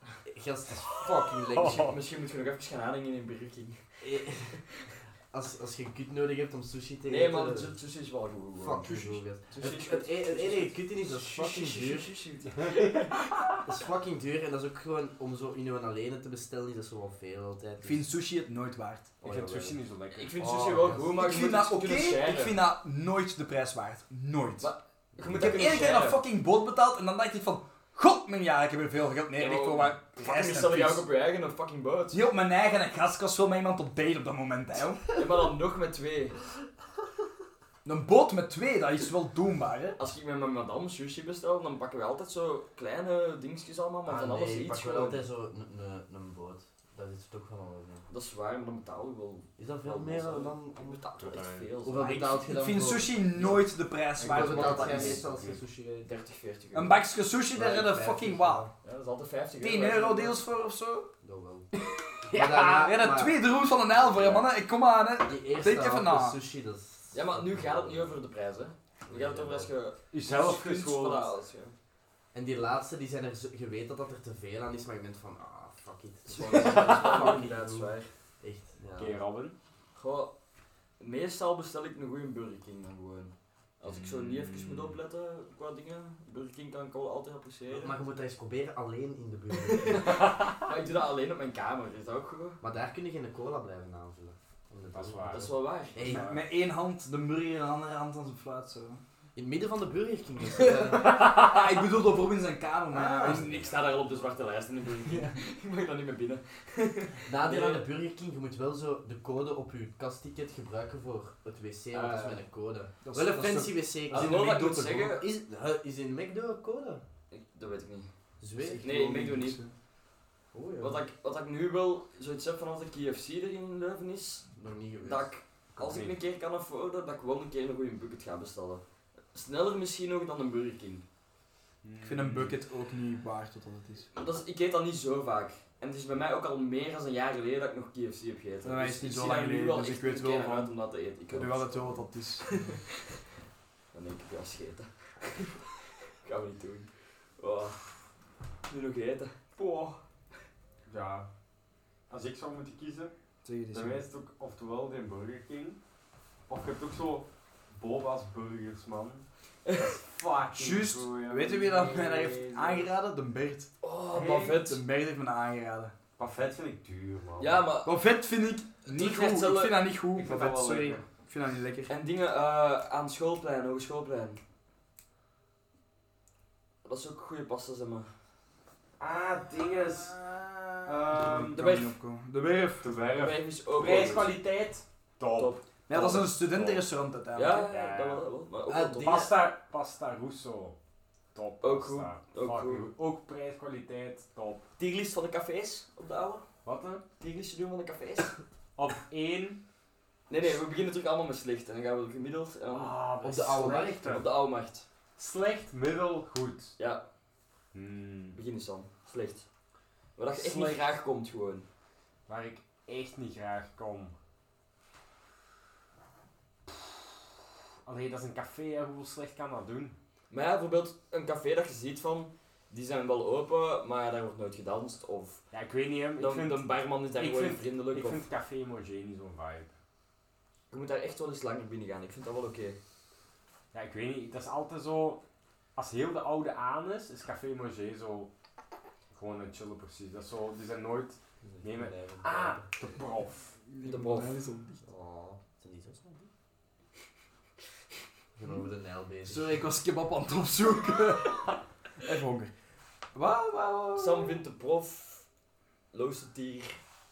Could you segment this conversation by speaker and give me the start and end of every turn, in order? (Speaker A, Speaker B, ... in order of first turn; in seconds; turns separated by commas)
Speaker A: 0.2-1.9, Speaker B: 1.5-1.9, Speaker C: 1.6-3.8, Speaker A: 4.0-4.6, Speaker C: 4.5-4.9, Speaker A: 5.3-7.7, Speaker C: 7.1-13.3, Speaker A: 8.6-12.1, Speaker B: 12.6-13.3, Speaker A: 13.6-18.1, Speaker D: 17.8-19.1, Speaker A: 19.2-19.8, Speaker B: 19.2-21.0, Speaker C: 20.1-22.6, Speaker A: 20.5-21.1, Speaker D: 21.1-24.7, Speaker C: 24.6-26.2, Speaker D: 25.3-31.1, Speaker C: 29.4-32.2, Speaker D: 32.1-35.0, Speaker C: 35.1-36.4, Speaker D: 37.8-40.0, Speaker C: 40.0-45.2, Speaker A: 44.0-48.1, Speaker C: 48.1-52.2, Speaker A: 49.6-51.0, Speaker B: 51.2-51.7, Speaker A: 51.8-53.6, Speaker D: 52.0-55.2, Speaker B: 54.2-55.6, Speaker A: 54.2-56.2, Speaker C: 56.1-57.0, Speaker D: 56.7-58.7, Speaker A: 57.5-58.7, Speaker C: 58.8-60.4, Speaker D: 59.6-61.1, Speaker A: 61.2-61.7, Speaker D: 62.2-66.4, Speaker A: 62.2-63.4, Speaker C: 64.0-64.4, Speaker A: 65.2-68.2, Speaker C: 67.1-71.8, Speaker A: 69.0-69.7, Speaker B: 70.1-71.3, Speaker A: 72.3-79.2, Speaker C: 76.3-78.1, Speaker B: 76.5-77.3, Speaker B: 79.0-79.5, Speaker C: 79.9-80.3, Speaker C: 81.0-88.0, Speaker B: 83.8-85.0, Speaker A: 87.7-90.2, Speaker C: 89.7-92.6, Speaker B: 90.0-90.6, Speaker A: 92.6-96.3, Speaker B: 94.9-96.4, Speaker C: 95.3-96.2, Speaker D: 96.0-99.0, Speaker A: 99.3-101.3, Speaker D: 101.2-103.7, Speaker A: 102.9-103.6, Speaker C: 103.2-107.9, Speaker D: 105.0-105.4, Speaker A: 107.2-117.0, Speaker C: 111.9-112.4, Speaker D: 113.0-114.5, Speaker C: 114.1-115.2, Speaker C: 117.3-118.1, Speaker A: 118.4-118.8, Speaker D: 118.6-119.7, Speaker C: 118.8-119.6, Speaker A: 120.5-121.0, Speaker C: 120.8-124.5, Speaker A: 124.6-125.3, Speaker C: 125.0-128.8, Speaker B: 125.8-126.2, Speaker C: 129.3-131.0, Speaker B: 131.8-132.6, Speaker D: 132.0-134.1, Speaker C: 134.1-142.8, Speaker D: 138.6-140.7, Speaker D: 141.3-142.5, Speaker C: 143.9-145.7, Speaker C: 146.2-147.8, Speaker C: 148.7-150.0, Speaker B: 150.8-151.3, Speaker B: 152.1-153.1, Speaker D: 153.4-154.0, Speaker B: 153.7-155.8, Speaker B: 156.5-162.9, Speaker C: 159.6-159.9, Speaker D: 160.6-165.9, Speaker C: 163.8-164.8, Speaker B: 166.2-167.6, Speaker C: 167.4-167.9, Speaker D: 167.8-171.9, Speaker C: 168.8-169.8, Speaker B: 170.1-171.0, Speaker C: 171.9-174.4, Speaker C: 176.8-178.1, Speaker B: 179.0-180.2, Speaker D: 180.1-182.9, Speaker B: 180.8-181.6, Speaker C: 181.5-181.9, Speaker B: 182.8-186.8, Speaker C: 183.1-184.3, Speaker C: 185.3-186.1, Speaker D: 185.9-187.7, Speaker C: 187.3-189.2, Speaker B: 187.6-188.3, Speaker A: 188.7-189.3, Speaker B: 189.0-190.8, Speaker B: 191.3-194.7, Speaker C: 191.6-192.8, Speaker C: 194.8-196.4, Speaker B: 196.6-197.0, Speaker C: 197.2-198.3, Speaker B: 198.8-199.6, Speaker C: 200.3-202.9, Speaker B: 202.7-204.3, Speaker A: 203.2-204.1, Speaker C: 203.5-204.8, Speaker B: 205.2-206.7, Speaker C: 206.8-207.0, Speaker B: 207.7-208.4, Speaker C: 208.3-209.5, Speaker C: 210.2-211.7, Speaker B: 210.3-210.8, Speaker B: 212.3-214.1, Speaker B: 216.7-217.0, Speaker B: 217.8-219.9, Speaker C: 220.3-225.4, Speaker B: 225.5-229.7, Speaker C: 226.2-228.2, Speaker C: 230.7-232.8, Speaker B: 233.7-235.2, Speaker B: 235.8-238.3, Speaker B: 239.1-243.5, Speaker A: 241.4-242.7, Speaker D: 243.7-244.8, Speaker C: 243.8-244.3, Speaker A: 244.8-246.3, Speaker A: 248.3-249.6, Speaker D: 249.2-252.5, Speaker D: 253.1-254.4, Speaker C: 253.9-255.3, Speaker C: 255.9-256.8